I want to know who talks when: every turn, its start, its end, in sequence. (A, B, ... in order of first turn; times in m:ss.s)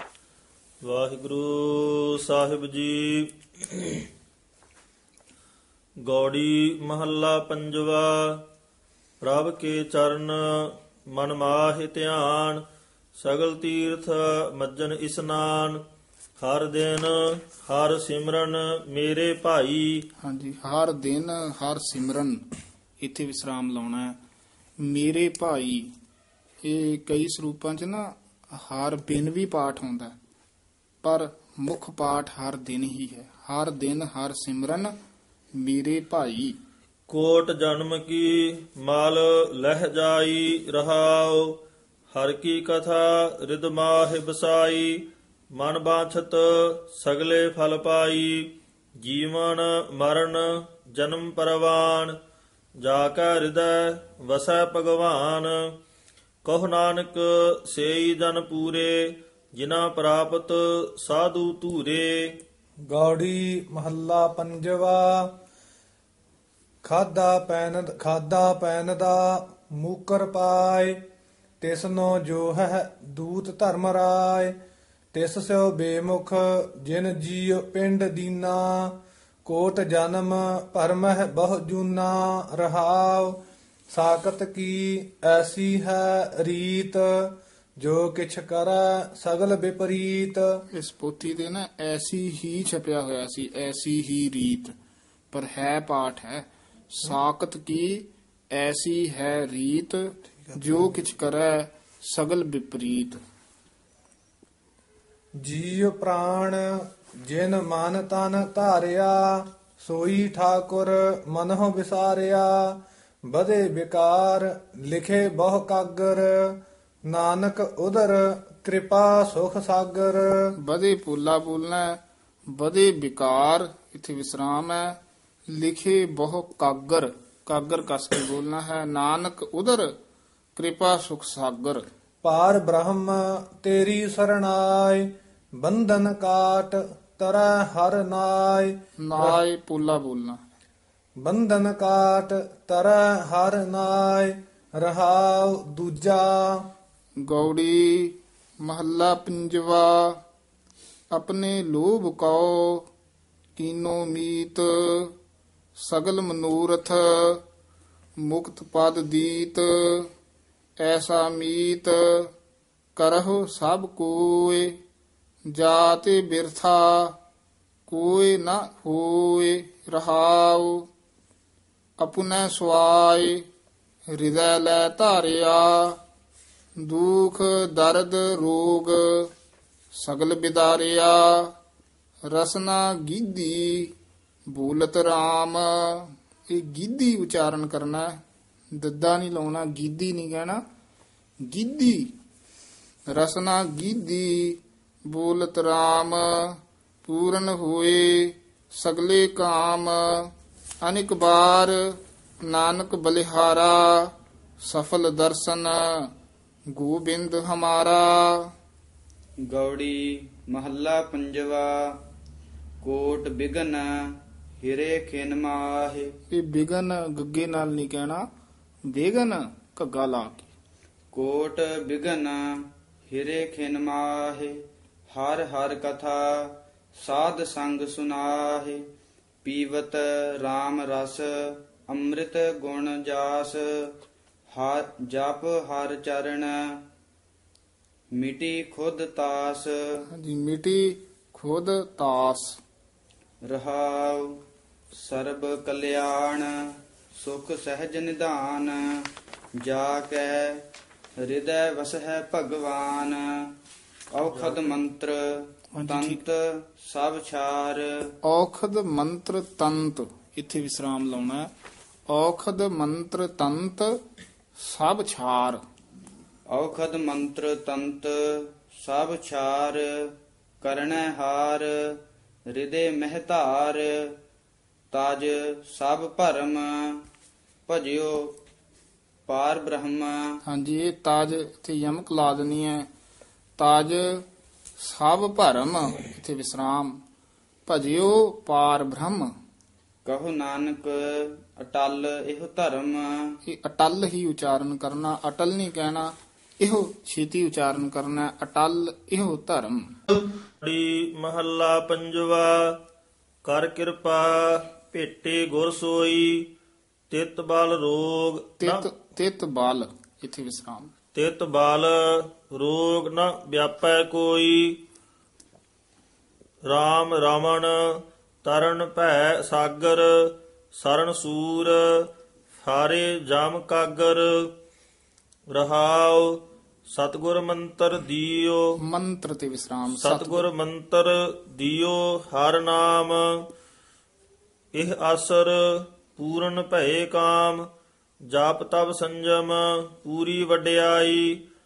0:00.8-0:04.0 A
0:06.1-0:08.4 A
0:09.2-0:12.6 A
0:13.2-0:15.8 A
0:16.4-0:20.0 A
0:20.2-0:22.4 B
0:23.0-0:24.2 B
0:24.8-0:25.9 B
0:26.6-0:30.1 B
0:31.0-0:34.9 B
0:35.6-0:36.6 B
0:37.1-0:41.6 A
0:42.1-0:52.2 A
0:52.8-0:55.6 A
0:56.4-1:02.4 A
1:02.9-1:05.3 C
1:06.8-1:11.0 C
1:11.6-1:14.6 C
1:15.1-1:23.4 C
1:23.9-1:30.5 C
1:30.7-1:34.7 B
1:35.3-1:43.2 B
1:45.4-2:00.4 C
2:00.6-2:02.0 B
2:02.5-2:05.0 B
2:05.5-2:09.9 B
2:10.6-2:11.8 B
2:12.2-2:15.1 C
2:15.6-2:19.4 C
2:19.0-2:20.4 B
2:21.2-2:26.7 C
2:27.2-2:30.2 B
2:31.1-2:32.9 B
2:33.6-2:35.1 B
2:35.8-2:37.4 B
2:38.2-2:40.1 B
2:40.8-2:42.3 B
2:43.0-2:44.7 B
2:45.5-2:47.2 B
2:47.9-2:50.9 B
2:52.0-2:53.4 B
2:54.1-2:56.0 B
2:56.8-2:59.3 B
2:59.9-3:01.5 B
3:02.3-3:03.9 B
3:04.5-3:08.2 B
3:08.8-3:10.6 B
3:11.4-3:12.1 B
3:13.1-3:20.3 B
3:20.8-3:21.8 B
3:22.5-3:24.1 B
3:24.6-3:25.8 B
3:26.7-3:28.3 B
3:29.5-3:31.7 D
3:32.8-3:33.9 D
3:34.6-3:36.1 D
3:36.3-3:38.2 B
3:38.9-3:40.5 B
3:41.1-3:42.4 D
3:43.1-3:44.6 D
3:45.1-3:48.8 D
3:49.4-3:53.9 D
3:54.5-3:56.6 D
3:58.2-3:59.7 D
4:00.1-4:02.6 B
4:03.5-4:04.4 D
4:04.9-4:06.5 D
4:07.1-4:09.1 D
4:09.6-4:10.6 D
4:11.2-4:13.3 D
4:14.2-4:17.9 D
4:14.2-4:14.8 A
4:15.8-4:16.2 B
4:18.2-4:21.5 B
4:22.1-4:24.0 B
4:24.6-4:25.6 B
4:26.5-4:32.0 D
4:32.6-4:34.1 D
4:34.9-4:37.0 D
4:37.7-4:38.4 D
4:39.3-4:40.2 D
4:40.4-4:42.9 B
4:43.6-4:44.2 B
4:44.8-4:47.0 B
4:47.6-4:49.3 B
4:50.1-4:53.2 D
4:53.4-4:59.9 B
5:00.6-5:02.8 A
5:03.4-5:06.5 A
5:07.1-5:08.9 A
5:08.6-5:10.9 B
5:11.1-5:14.8 A
5:16.6-5:24.5 A
5:25.5-5:28.6 A
5:28.8-5:30.4 B
5:29.9-5:33.5 A
5:34.7-5:37.7 A
5:38.3-5:41.4 A